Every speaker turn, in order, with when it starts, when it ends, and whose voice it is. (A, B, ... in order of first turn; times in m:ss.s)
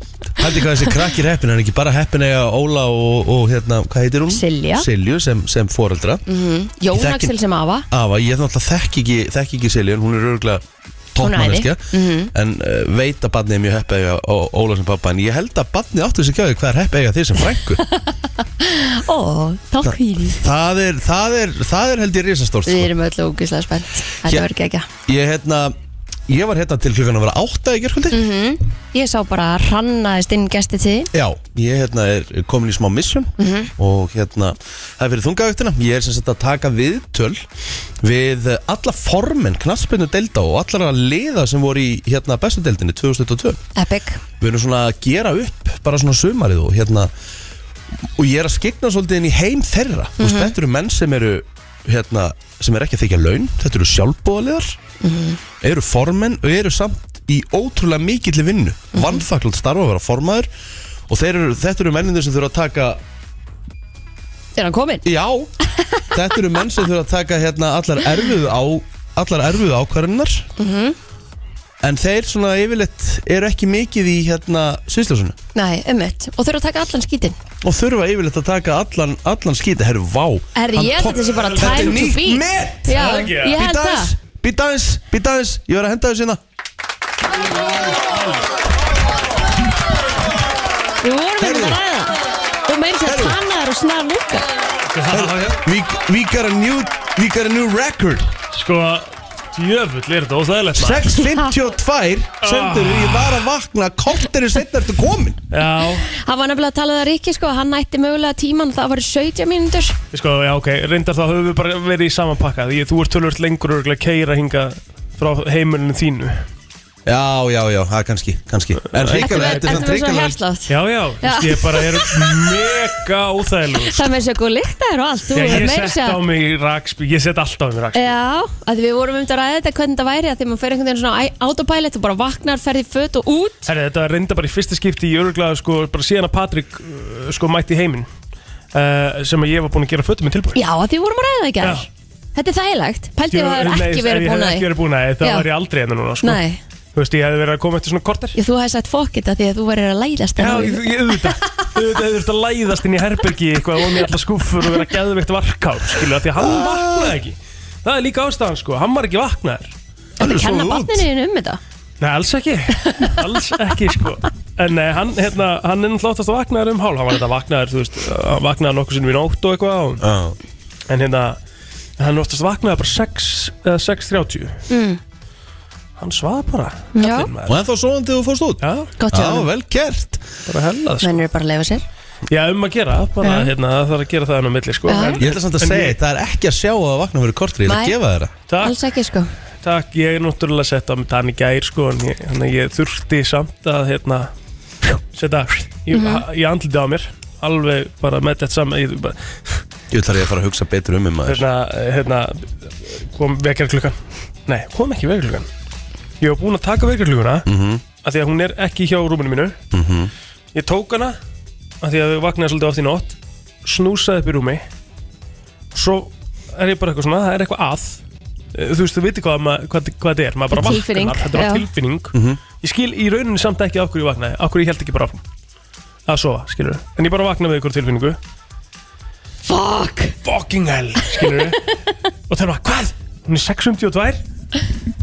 0:00.4-0:06.2 A
0:00.6-0:00.8 B
0:04.3-0:04.9 B
0:06.2-0:07.9 B
0:06.9-0:07.3 A
0:07.9-0:10.6 A
0:11.1-0:17.8 A
0:11.2-0:12.3 B
0:17.9-0:20.4 B
0:19.8-0:22.9 A
0:22.6-0:24.9 B
0:25.0-0:25.7 A
0:26.3-0:28.2 A
0:28.1-0:31.1 B
0:31.1-0:37.4 A
0:33.4-0:33.7 B
0:38.0-0:43.6 A
0:43.8-0:44.2 B
0:44.4-0:47.1 A
0:48.0-0:54.8 A
0:50.2-0:50.5 B
0:55.0-0:55.4 B
0:55.6-1:00.5 A
0:58.9-0:59.2 B
1:01.1-1:03.0 A
1:04.6-1:05.0 B
1:05.0-1:05.5 A
1:05.6-1:06.0 B
1:06.1-1:10.5 A
1:10.6-1:11.0 B
1:11.8-1:15.3 A
1:15.5-1:17.4 B
1:17.6-1:26.4 A
1:20.5-1:24.1 B
1:21.6-1:22.0 C
1:22.9-1:23.5 C
1:31.0-1:34.5 B
1:31.4-1:31.8 A
1:33.0-1:33.4 A
1:34.9-1:35.6 C
1:35.1-1:38.3 A
1:38.5-1:41.0 C
1:40.7-1:45.4 A
1:41.1-1:41.5 B
1:42.4-1:43.4 C
1:45.5-1:46.1 C
1:46.1-1:50.0 B
1:50.1-1:56.4 C
1:57.0-2:00.4 A
1:58.9-1:59.8 C
1:59.2-2:00.7 B
2:00.7-2:04.1 C
2:01.2-2:02.4 B
2:03.8-2:06.2 B
2:05.3-2:08.1 C
2:07.9-2:13.7 B
2:13.6-2:18.1 C
2:18.7-2:20.6 C
2:20.5-2:24.7 B
2:21.6-2:21.9 C
2:23.3-2:26.4 C
2:25.2-2:25.5 B
2:26.2-2:26.6 B
2:26.9-2:28.4 C
2:28.3-2:31.2 B
2:30.4-2:39.7 C
2:36.4-2:37.1 A
2:40.2-2:41.0 A
2:40.2-2:41.6 B
2:42.0-2:50.0 C
2:50.0-2:50.4 A
2:50.9-2:51.4 C
2:52.0-2:54.6 C
2:54.7-2:55.0 B
2:56.0-2:57.6 C
2:56.9-2:57.3 B
2:57.5-3:00.3 A
2:58.6-2:58.9 C
2:59.0-2:59.5 B
3:00.5-3:01.2 C
3:01.0-3:01.8 B
3:02.3-3:06.0 C
3:03.2-3:03.5 B
3:04.9-3:05.2 B
3:05.2-3:08.3 A
3:07.6-3:07.9 B
3:08.5-3:08.7 C
3:08.6-3:09.3 B
3:09.6-3:14.3 C
3:15.1-3:19.6 C
3:15.9-3:16.2 B
3:19.9-3:21.4 A
3:21.3-3:23.9 C
3:24.5-3:25.5 C
3:26.2-3:27.4 C
3:27.4-3:27.8 A
3:28.0-3:29.6 C
3:29.7-3:30.1 A
3:30.5-3:31.2 C
3:31.8-3:34.6 C
3:35.7-3:38.0 C
3:38.5-3:45.2 C
3:40.5-3:41.6 B
3:42.1-3:42.4 A
3:46.1-3:48.2 C
3:49.4-3:50.2 B
3:50.2-3:51.6 C
3:51.2-3:51.6 B
3:52.3-3:54.2 C